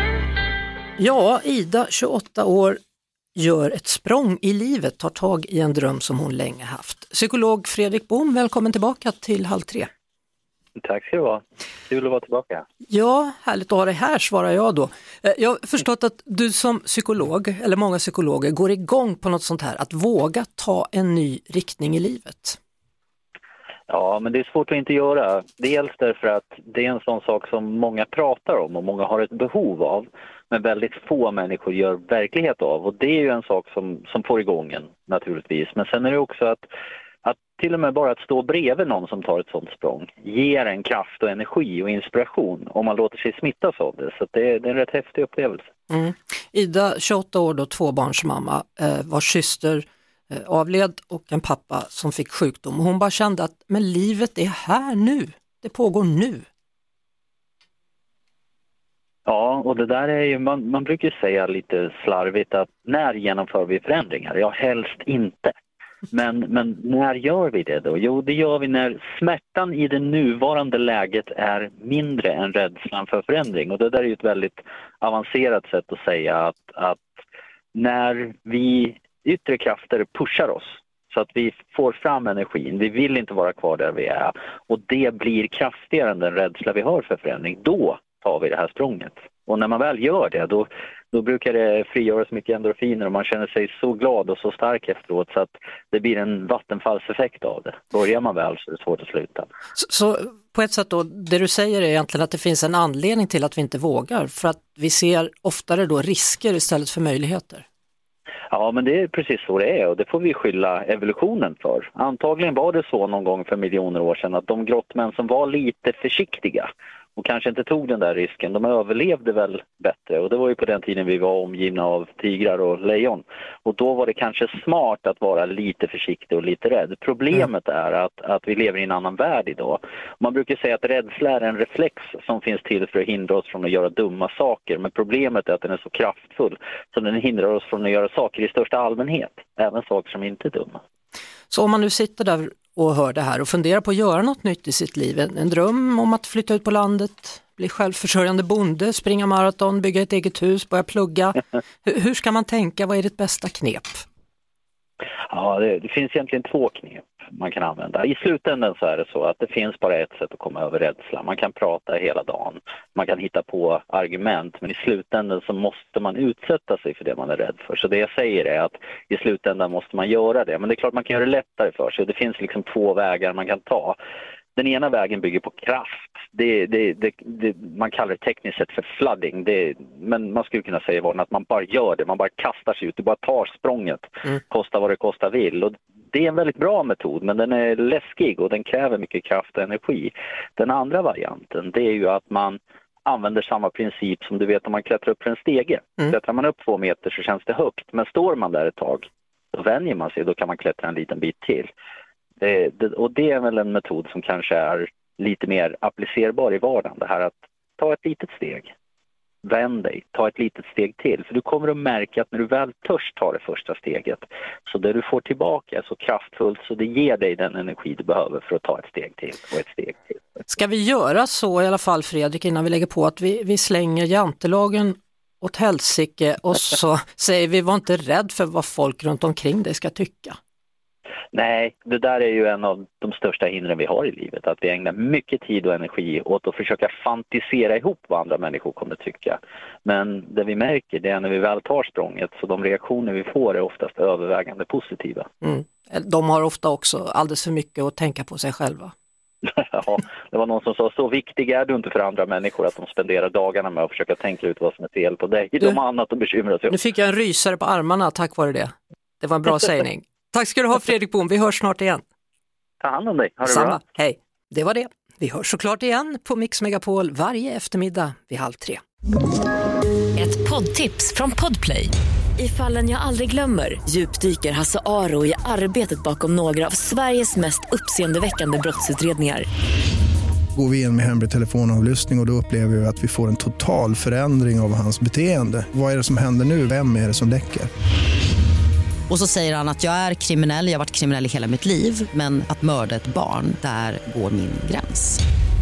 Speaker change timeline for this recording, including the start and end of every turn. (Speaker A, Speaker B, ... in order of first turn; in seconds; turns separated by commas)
Speaker A: 1.0-2.8, Speaker A: 3.4-9.9, Speaker B: 10.8-12.7, Speaker A: 12.9-22.6, Speaker B: 23.9-36.7, Speaker B: 37.2-45.7, Speaker A: 45.9-56.5, Speaker B: 59.2-65.5, Speaker B: 66.1-77.1, Speaker B: 77.7-99.5, Speaker A: 99.8-107.7, Speaker B: 108.5-140.8, Speaker A: 141.5-154.1, Speaker B: 155.3-174.0, Speaker B: 174.6-201.7, Speaker B: 202.4-208.7, Speaker B: 209.4-220.2, Speaker A: 220.5-230.4, Speaker B: 231.3-245.3, Speaker A: 245.4-248.9, Speaker B: 249.5-256.8, Speaker A: 256.7-262.0, Speaker B: 262.8-263.8, Speaker A: 263.4-268.8, Speaker C: 270.2-279.5, Speaker D: 280.6-287.7, Speaker E: 289.1-295.2